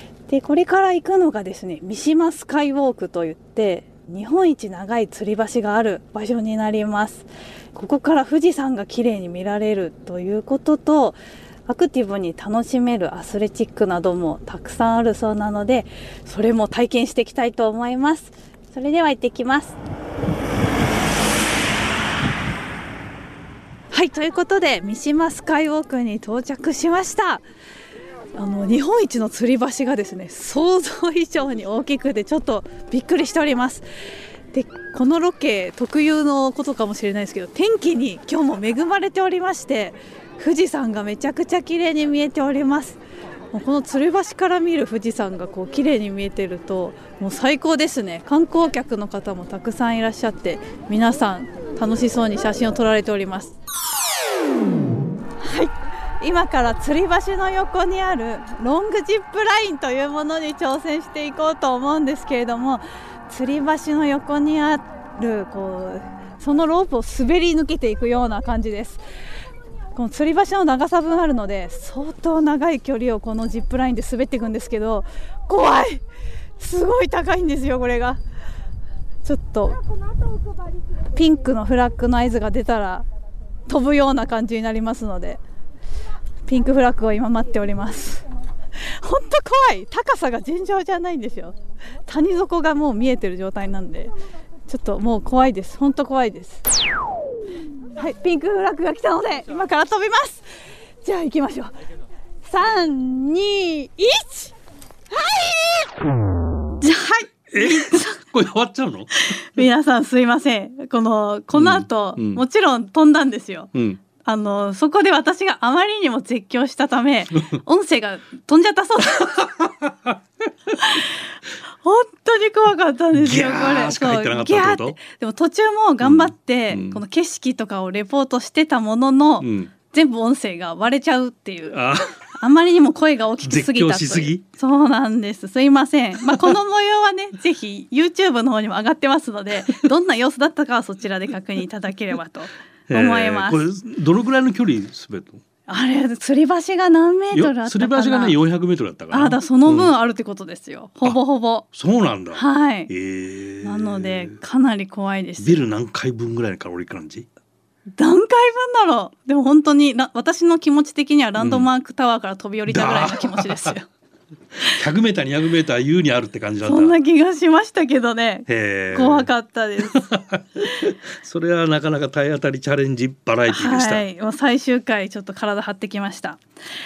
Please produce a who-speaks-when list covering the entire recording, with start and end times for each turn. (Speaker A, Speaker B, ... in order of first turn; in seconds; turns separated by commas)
Speaker A: 0.3-19.8, Speaker A: 23.9-27.4, Speaker A: 28.4-33.9, Speaker A: 34.5-43.0, Speaker A: 43.5-53.6, Speaker A: 55.4-69.0, Speaker A: 70.0-76.0, Speaker A: 76.6-78.2, Speaker A: 79.2-79.8, Speaker A: 81.1-83.1, Speaker A: 83.7-85.4, Speaker A: 86.5-88.2, Speaker A: 88.8-94.1, Speaker A: 94.7-96.6, Speaker A: 98.0-100.5, Speaker A: 101.0-101.7, Speaker A: 102.4-104.5, Speaker A: 105.1-105.8, Speaker A: 106.8-108.2, Speaker B: 107.5-109.1, Speaker A: 109.1-119.5, Speaker B: 111.5-112.4, Speaker B: 113.8-114.0, Speaker B: 119.5-120.1, Speaker A: 120.7-121.2, Speaker A: 121.8-143.6, Speaker B: 123.1-125.0, Speaker B: 126.0-127.0, Speaker B: 129.4-129.7, Speaker B: 131.7-132.2, Speaker B: 133.4-134.4, Speaker B: 136.2-136.6, Speaker B: 142.9-145.4, Speaker A: 145.7-148.4, Speaker B: 147.3-149.9, Speaker A: 149.1-151.7, Speaker B: 151.7-154.4, Speaker A: 152.3-152.9, Speaker A: 153.6-155.6, Speaker B: 155.4-157.3, Speaker A: 158.0-163.9, Speaker B: 161.4-161.7, Speaker B: 162.7-163.8, Speaker B: 164.7-167.0, Speaker A: 166.6-170.1, Speaker B: 168.5-169.3, Speaker B: 169.8-174.1, Speaker A: 173.5-176.4